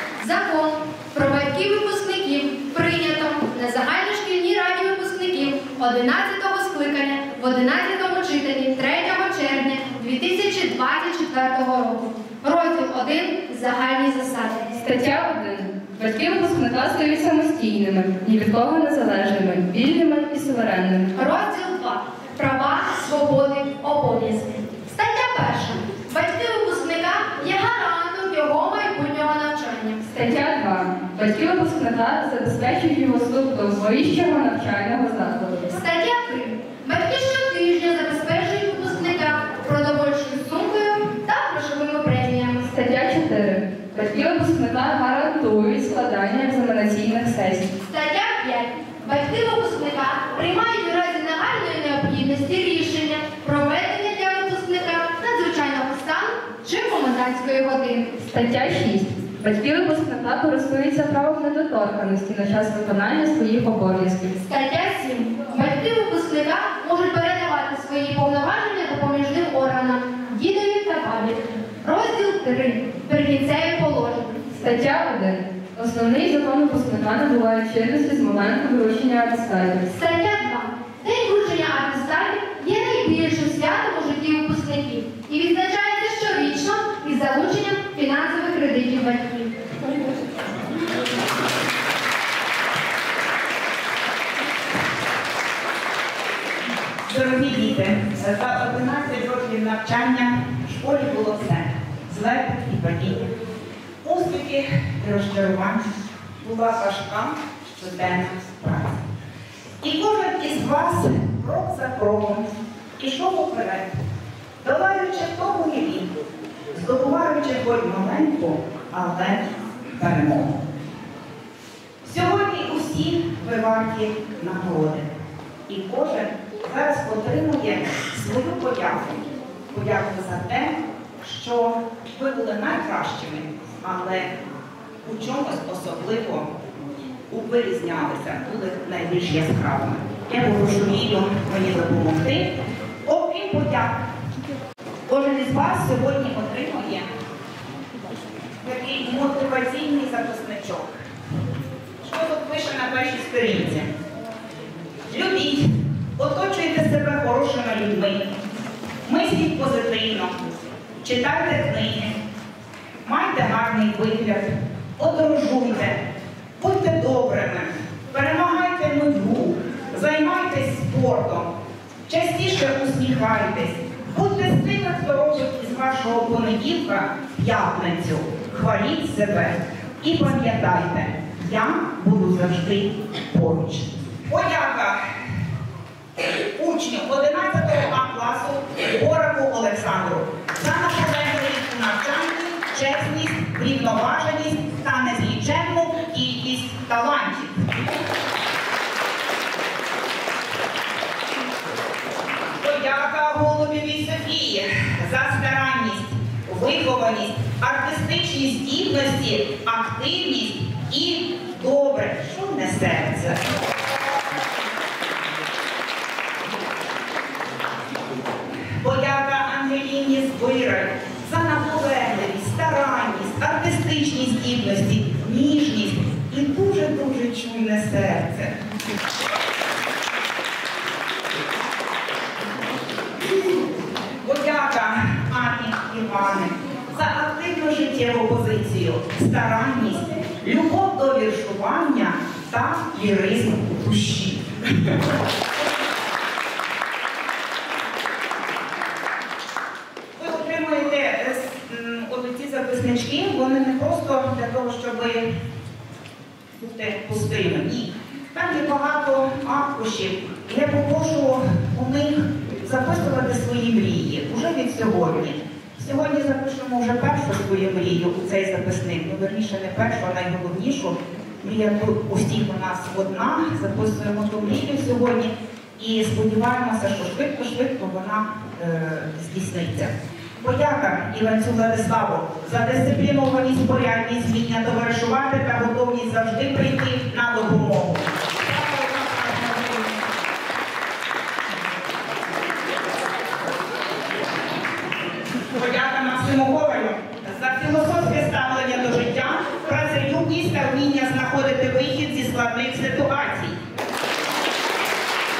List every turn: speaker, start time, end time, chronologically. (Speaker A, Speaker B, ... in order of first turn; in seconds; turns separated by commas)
Speaker A: 0.2-14.9, Speaker B: 14.9-21.1, Speaker A: 21.1-30.1, Speaker B: 30.1-35.7, Speaker A: 35.7-42.6, Speaker B: 42.6-47.7, Speaker A: 47.8-58.3, Speaker B: 58.3-64.4, Speaker A: 64.5-74.6, Speaker B: 74.6-79.9, Speaker A: 79.9-89.5, Speaker C: 97.1-103.3, Speaker C: 104.0-109.0, Speaker C: 109.8-112.5, Speaker C: 113.0-114.0, Speaker C: 114.6-116.1, Speaker C: 116.7-120.6, Speaker C: 122.0-125.1, Speaker C: 125.7-134.3, Speaker C: 135.0-136.5, Speaker C: 137.3-142.5, Speaker C: 143.0-144.0, Speaker C: 145.1-147.1, Speaker C: 148.6-151.0, Speaker C: 152.0-153.9, Speaker C: 155.1-158.3, Speaker C: 159.1-160.4, Speaker C: 161.0-162.1, Speaker C: 163.0-166.0, Speaker C: 166.6-171.5, Speaker C: 172.1-185.0, Speaker C: 186.6-197.6, Speaker C: 202.6-213.4, Speaker C: 218.8-228.5, Speaker C: 234.2-244.9, Speaker C: 250.2-255.2, Speaker C: 256.6-290.0, Speaker C: 295.5-303.6